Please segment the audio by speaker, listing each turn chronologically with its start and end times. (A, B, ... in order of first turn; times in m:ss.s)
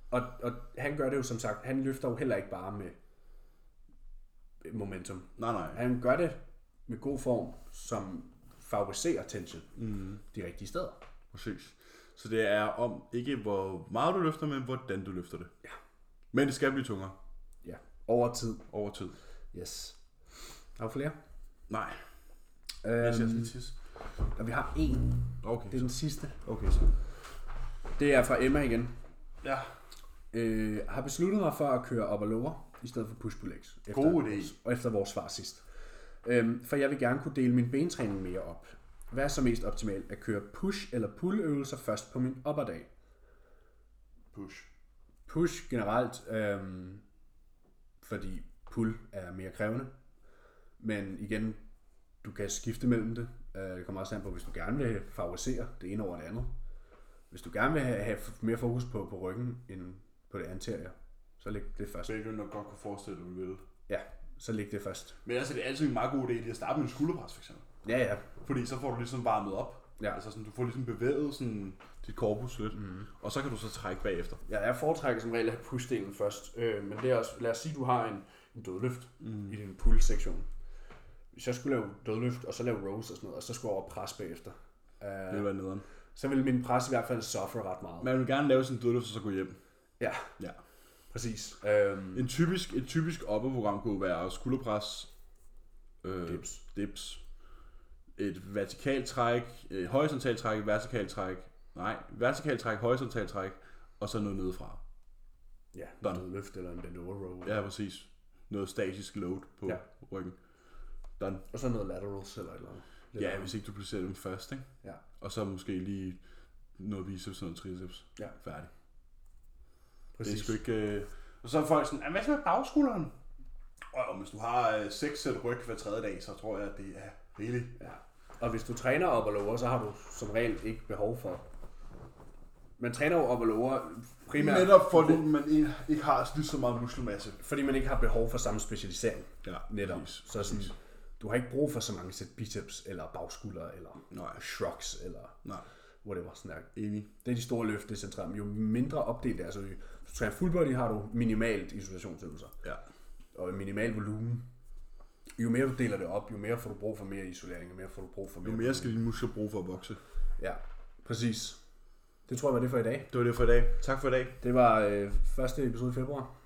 0:00.1-0:03.0 A
0:04.6-0:09.7 A
0:05.4-0:05.8 B
0:09.8-0:10.2 B
0:10.3-0:11.0 A
0:11.3-0:15.5 B
0:16.3-0:17.2 B
0:17.6-0:18.6 A
0:18.7-0:19.2 B
0:19.5-0:20.0 A
0:20.8-0:21.2 A
0:21.7-0:22.0 B
0:22.8-0:23.6 A
0:23.0-0:23.8 B
0:24.4-0:26.4 A
0:25.4-0:25.9 B
0:26.4-0:26.8 B
0:28.0-0:28.9 A
0:29.4-0:29.7 B
0:30.3-0:35.6 A
0:33.9-0:34.5 B
0:36.2-0:42.9 A
0:44.3-0:44.7 B
0:45.3-0:47.0 A
0:48.0-0:49.9 A
0:50.8-0:51.6 A
0:52.2-0:56.5 A
0:57.3-1:02.1 A
1:02.0-1:03.6 B
1:03.9-1:05.2 A
1:05.2-1:07.6 B
1:07.8-1:08.2 A
1:08.4-1:14.4 B
1:12.8-1:13.0 A
1:14.5-1:20.5 A
1:19.2-1:19.5 B
1:21.3-1:25.5 A
1:25.3-1:25.8 B
1:26.1-1:28.1 A
1:28.0-1:29.6 B
1:30.0-1:30.3 A
1:31.1-1:32.3 A
1:32.1-1:35.1 B
1:36.0-1:37.2 B
1:36.3-1:36.6 A
1:38.2-1:44.8 B
1:45.7-1:47.6 A
1:47.4-1:50.4 B
1:51.2-1:51.4 B
1:51.5-1:53.5 A
1:53.2-1:54.7 B
1:55.2-1:56.2 B
1:56.8-1:58.7 B
2:00.1-2:00.6 A
2:00.2-2:03.1 B
2:03.9-2:07.8 B
2:07.8-2:11.4 A
2:12.8-2:15.2 A
2:14.3-2:17.4 B
2:17.4-2:25.4 A
2:19.4-2:20.7 B
2:24.1-2:24.4 B
2:26.0-2:26.7 A
2:26.7-2:27.1 B
2:27.2-2:32.5 A
2:33.3-2:34.4 A
2:35.4-2:38.9 A
2:38.4-2:40.0 B
2:40.4-2:41.6 A
2:42.3-2:43.1 A
2:43.1-2:44.4 B
2:44.4-2:46.3 A